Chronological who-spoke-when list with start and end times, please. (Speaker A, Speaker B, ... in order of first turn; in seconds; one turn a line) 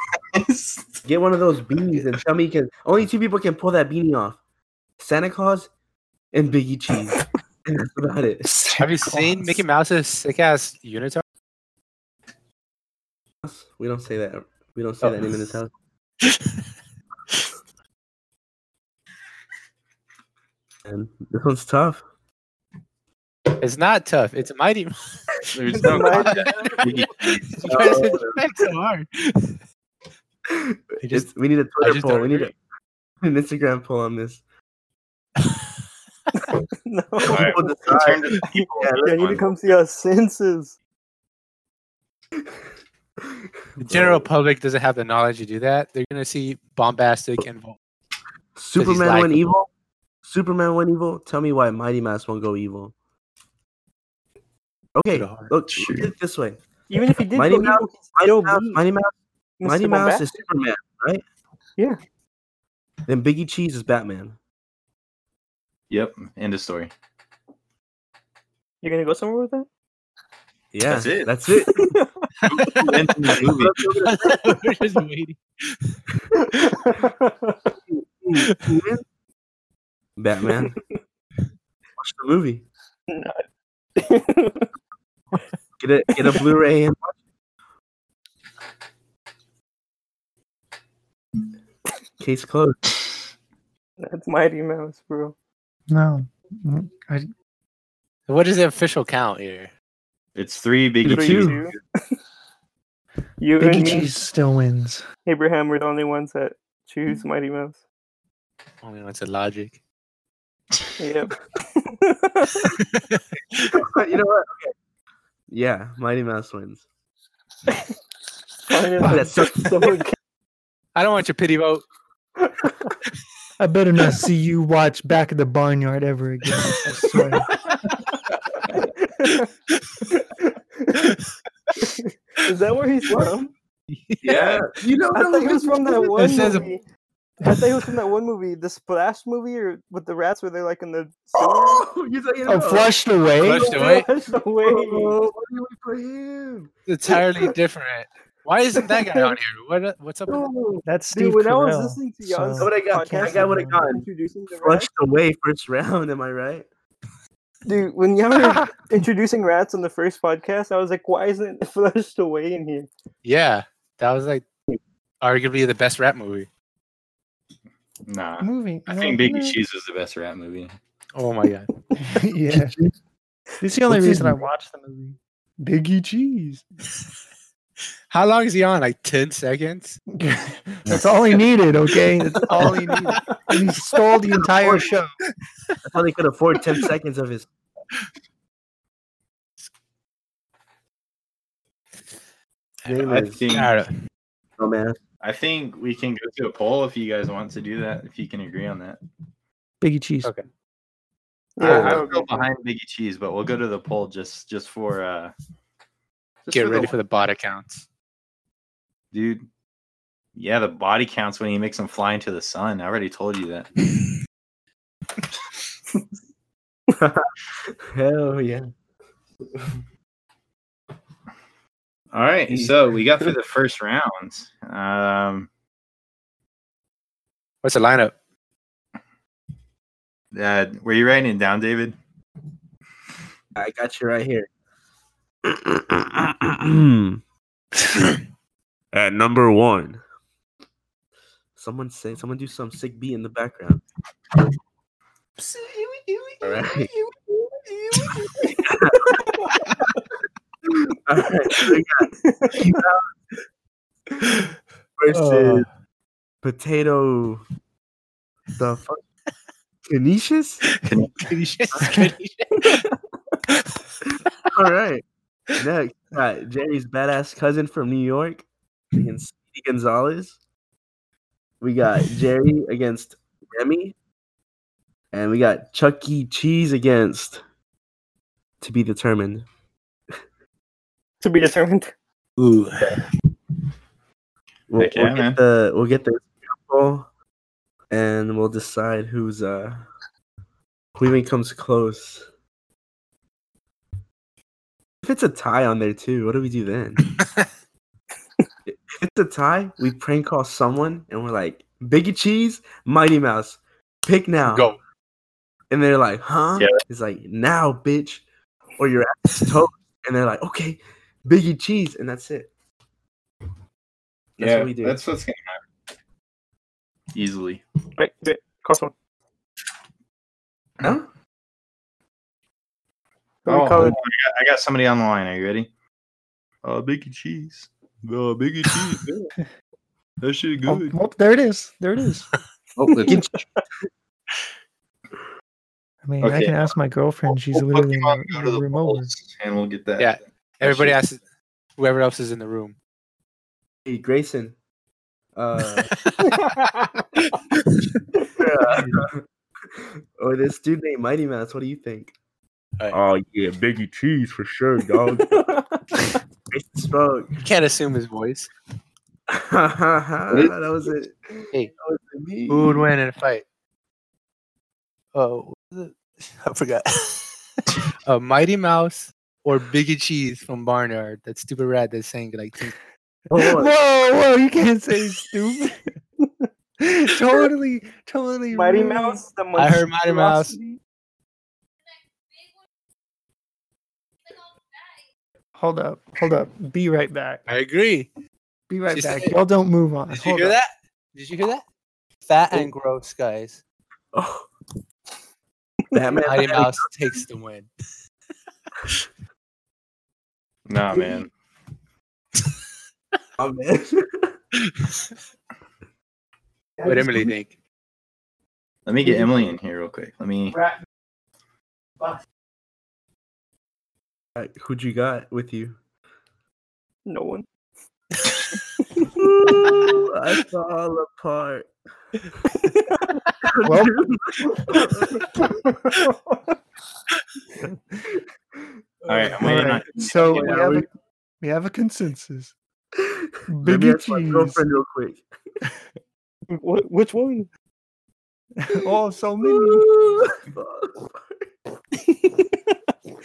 Speaker A: 0.3-1.0
Speaker B: 1.0-4.4
Speaker B: 5.0-5.7
Speaker B: 6.3-8.5
Speaker C: 8.4-9.6
Speaker D: 8.8-11.2
Speaker B: 13.4-15.7
Speaker D: 16.2-16.6
Speaker B: 20.8-22.0
Speaker D: 23.6-29.6
Speaker A: 25.5-27.7
Speaker E: 25.7-27.1
Speaker B: 27.7-28.4
Speaker B: 30.5-32.5
Speaker D: 31.0-32.5
Speaker B: 33.2-34.4
Speaker E: 36.4-40.7
Speaker B: 37.2-39.4
Speaker A: 37.2-39.7
Speaker B: 43.2-44.0
Speaker D: 43.8-47.8
Speaker A: 43.9-44.2
Speaker B: 48.5-49.7
Speaker D: 48.8-49.5
Speaker B: 50.2-52.9
Speaker B: 54.9-56.6
Speaker D: 55.1-55.5
Speaker A: 55.7-56.1
Speaker E: 56.9-58.8
Speaker B: 57.3-61.2
Speaker E: 59.6-60.2
Speaker B: 63.1-64.3
Speaker A: 65.9-66.9
Speaker E: 68.8-69.7
Speaker B: 70.7-71.9
Speaker A: 70.8-71.3
Speaker E: 71.7-72.3
Speaker A: 72.4-73.9
Speaker B: 72.8-74.6
Speaker D: 74.0-76.0
Speaker E: 76.4-77.7
Speaker B: 77.9-79.0
Speaker D: 78.4-78.8
Speaker B: 80.2-80.8
Speaker B: 82.0-82.6
Speaker E: 83.1-83.4
Speaker E: 84.0-84.7
Speaker B: 85.8-87.2
Speaker E: 86.1-86.4
Speaker B: 92.2-92.8
Speaker E: 94.0-95.3
Speaker C: 95.9-97.3
Speaker D: 98.3-99.7
Speaker A: 100.3-101.7
Speaker B: 101.0-101.6
Speaker E: 101.0-101.8
Speaker E: 103.4-104.1
Speaker C: 103.6-105.0
Speaker E: 105.2-107.8
Speaker D: 108.8-109.8
Speaker E: 111.0-112.7
Speaker D: 112.9-113.8
Speaker B: 113.7-114.7
Speaker B: 115.5-116.8
Speaker E: 118.7-120.1
Speaker C: 119.0-119.3
Speaker B: 119.0-120.0
Speaker D: 120.9-121.8
Speaker C: 123.6-127.5
Speaker E: 128.7-129.5
Speaker E: 130.1-131.0
Speaker D: 131.0-131.2
Speaker E: 131.8-133.5
Speaker D: 133.9-134.4
Speaker B: 134.2-136.5
Speaker A: 134.2-134.6
Speaker E: 135.1-136.8
Speaker D: 136.2-136.7
Speaker E: 137.4-141.8
Speaker B: 141.3-142.9
Speaker C: 142.5-143.6
Speaker D: 143.4-144.1
Speaker B: 143.5-143.8
Speaker E: 143.5-145.2
Speaker B: 144.6-146.7
Speaker D: 146.9-150.4
Speaker E: 148.9-149.3
Speaker B: 150.3-150.8
Speaker C: 150.8-153.8
Speaker E: 151.1-154.9
Speaker B: 152.6-154.1
Speaker B: 154.6-156.7
Speaker E: 157.7-162.9
Speaker D: 163.2-164.4
Speaker D: 165.2-166.5
Speaker A: 168.1-170.7
Speaker C: 168.4-169.6
Speaker D: 171.2-171.7
Speaker C: 172.0-172.8
Speaker B: 172.5-172.9
Speaker C: 173.6-176.6
Speaker B: 173.9-174.3
Speaker D: 178.1-180.0
Speaker C: 180.2-185.1
Speaker B: 184.6-184.9
Speaker B: 185.8-187.5
Speaker B: 192.8-193.4
Speaker A: 193.0-193.7
Speaker D: 193.5-193.9
Speaker B: 194.6-195.0
Speaker A: 195.2-199.0
Speaker C: 199.8-200.3
Speaker E: 201.6-202.4
Speaker A: 201.6-205.3
Speaker D: 201.6-202.0
Speaker A: 206.4-206.9
Speaker D: 206.5-207.8
Speaker A: 209.1-209.4
Speaker A: 210.3-213.7
Speaker B: 216.9-218.7
Speaker A: 222.1-225.5
Speaker B: 222.5-222.7
Speaker D: 227.6-228.1
Speaker A: 230.3-232.0
Speaker B: 233.6-234.5
Speaker B: 235.4-237.2
Speaker B: 238.9-240.0
Speaker B: 241.6-243.8
Speaker B: 246.4-246.9
Speaker B: 248.6-249.2
Speaker E: 249.1-249.6
Speaker B: 250.7-253.1
Speaker E: 252.2-252.8
Speaker B: 255.0-255.7
Speaker D: 255.1-255.7
Speaker B: 256.4-257.4
Speaker B: 258.6-259.0
Speaker B: 259.9-260.7
Speaker D: 260.8-262.8
Speaker A: 260.8-261.3
Speaker B: 264.5-270.4
Speaker B: 271.6-273.9
Speaker B: 275.1-277.4
Speaker B: 278.6-279.4
Speaker E: 281.2-281.9
Speaker D: 282.4-283.1
Speaker B: 284.7-287.1
Speaker A: 284.8-285.4
Speaker B: 287.9-289.9
Speaker B: 290.9-292.3
Speaker B: 295.0-297.1
Speaker B: 298.6-304.7
Speaker D: 304.4-304.8
Speaker B: 305.7-308.2
Speaker B: 308.8-312.5
Speaker B: 314.4-315.0
Speaker A: 314.4-315.6
Speaker A: 317.1-317.6
Speaker E: 318.0-318.9
Speaker B: 320.8-321.1
Speaker E: 323.4-324.0
Speaker A: 323.5-325.7
Speaker A: 326.6-329.3
Speaker A: 330.2-331.0
Speaker C: 330.6-332.3
Speaker A: 332.8-333.3
Speaker E: 332.9-333.6
Speaker B: 333.1-333.3
Speaker C: 336.0-339.1
Speaker A: 336.2-336.7
Speaker A: 337.5-341.0
Speaker D: 340.0-341.2
Speaker D: 341.8-342.7
Speaker B: 343.9-344.5
Speaker B: 345.3-345.9
Speaker D: 345.9-346.6
Speaker E: 346.4-346.8
Speaker D: 347.2-348.0
Speaker B: 348.4-352.1
Speaker D: 348.7-349.0
Speaker B: 352.9-355.5
Speaker E: 355.1-356.1
Speaker B: 356.5-357.4
Speaker D: 357.4-358.5
Speaker B: 359.3-362.9
Speaker D: 362.5-363.4
Speaker D: 365.1-372.8
Speaker B: 373.3-373.7
Speaker C: 373.3-375.9
Speaker C: 376.8-379.2
Speaker E: 378.5-380.8
Speaker D: 379.6-380.6
Speaker C: 385.6-387.4
Speaker D: 387.5-388.1
Speaker C: 388.7-390.6
Speaker D: 388.9-389.3
Speaker D: 390.1-391.6
Speaker D: 392.2-393.6
Speaker B: 394.1-394.5
Speaker B: 395.9-396.9
Speaker D: 396.2-397.7
Speaker A: 400.7-401.3
Speaker B: 403.4-404.3
Speaker D: 404.7-404.9
Speaker D: 406.8-407.5
Speaker C: 406.8-407.3
Speaker A: 408.9-410.6
Speaker B: 414.4-415.8
Speaker E: 417.1-417.5
Speaker B: 419.1-421.7
Speaker B: 423.4-425.3
Speaker C: 423.6-424.0
Speaker E: 425.5-426.4
Speaker B: 429.1-429.7
Speaker A: 429.1-430.8
Speaker C: 429.4-430.9
Speaker B: 430.2-430.8
Speaker C: 431.4-432.5
Speaker B: 433.0-435.2
Speaker C: 433.5-434.6
Speaker E: 436.5-437.5
Speaker C: 438.6-439.9
Speaker B: 439.4-441.4
Speaker E: 441.9-442.8